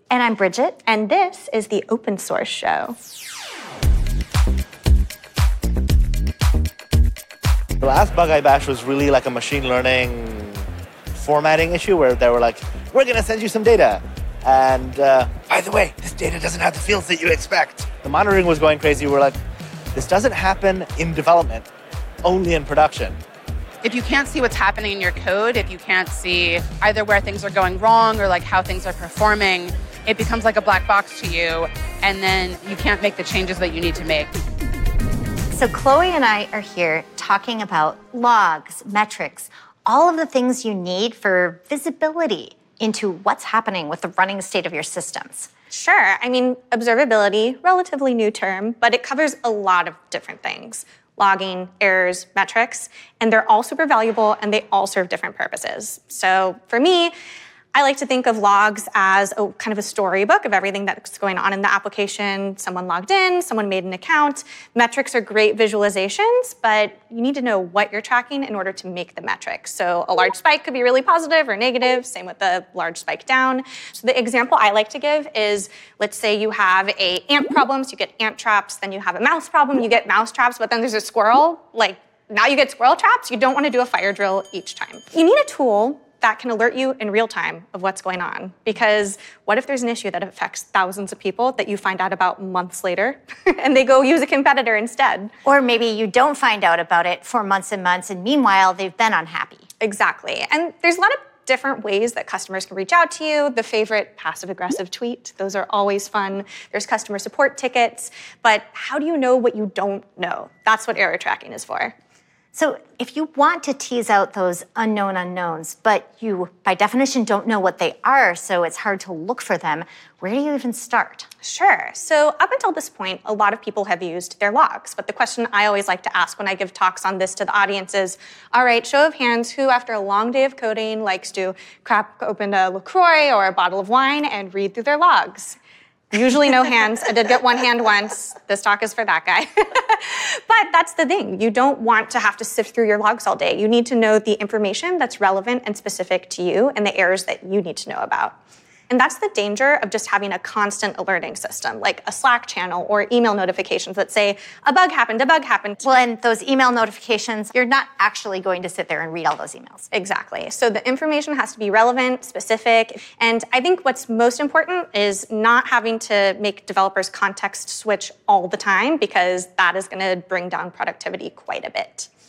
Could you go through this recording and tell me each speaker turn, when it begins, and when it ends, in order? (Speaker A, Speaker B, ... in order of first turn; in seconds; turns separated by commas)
Speaker A: 0.1-0.8, Speaker B: 0.8-3.0, Speaker C: 7.8-10.6, Speaker C: 11.1-19.3, Speaker C: 19.9-21.7, Speaker C: 22.2-23.2, Speaker D: 23.8-34.3, Speaker A: 35.5-45.5, Speaker B: 45.7-57.1, Speaker B: 57.7-95.3, Speaker A: 95.5-99.7, Speaker B: 99.8-111.9, Speaker A: 112.5-121.3, Speaker B: 121.4-135.6, Speaker B: 136.1-148.3, Speaker B: 148.9-155.9, Speaker A: 155.8-159.9, Speaker B: 159.9-172.1